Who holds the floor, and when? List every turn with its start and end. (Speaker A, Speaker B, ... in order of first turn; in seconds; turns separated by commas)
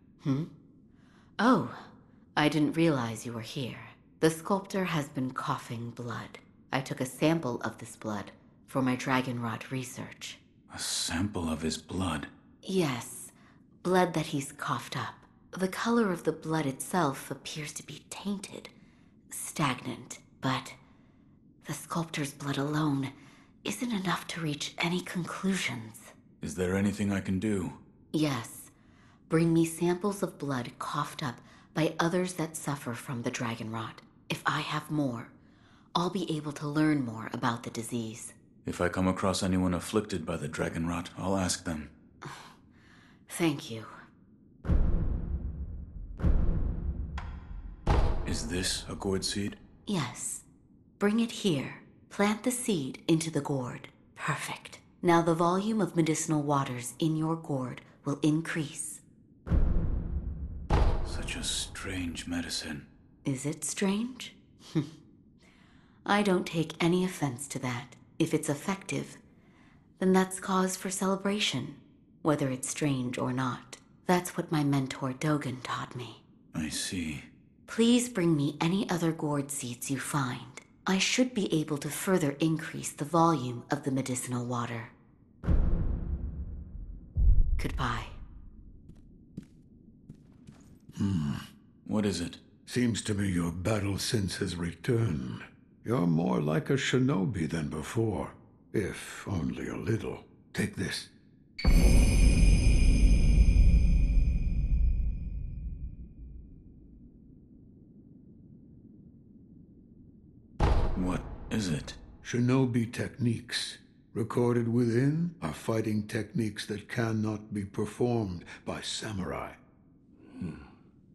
Speaker A: 0.2-0.5, Speaker A: 1.4-10.4, Speaker B: 10.7-12.3, Speaker A: 12.6-13.3, Speaker A: 13.8-18.7, Speaker A: 19.3-20.8, Speaker A: 21.6-23.1, Speaker A: 23.6-26.1, Speaker B: 26.4-27.8, Speaker A: 28.1-28.7, Speaker A: 29.3-35.3, Speaker A: 35.9-38.4, Speaker B: 38.6-41.9, Speaker A: 43.3-43.9, Speaker B: 48.2-49.6, Speaker A: 49.9-50.4, Speaker A: 51.0-59.0, Speaker B: 61.0-62.9, Speaker A: 63.2-64.9, Speaker A: 66.0-69.2, Speaker A: 70.0-76.2, Speaker B: 76.5-77.3, Speaker A: 77.7-84.9, Speaker A: 87.6-88.2, Speaker C: 91.0-91.4, Speaker B: 91.8-92.4, Speaker C: 92.7-101.1, Speaker B: 111.0-112.0, Speaker C: 112.2-119.6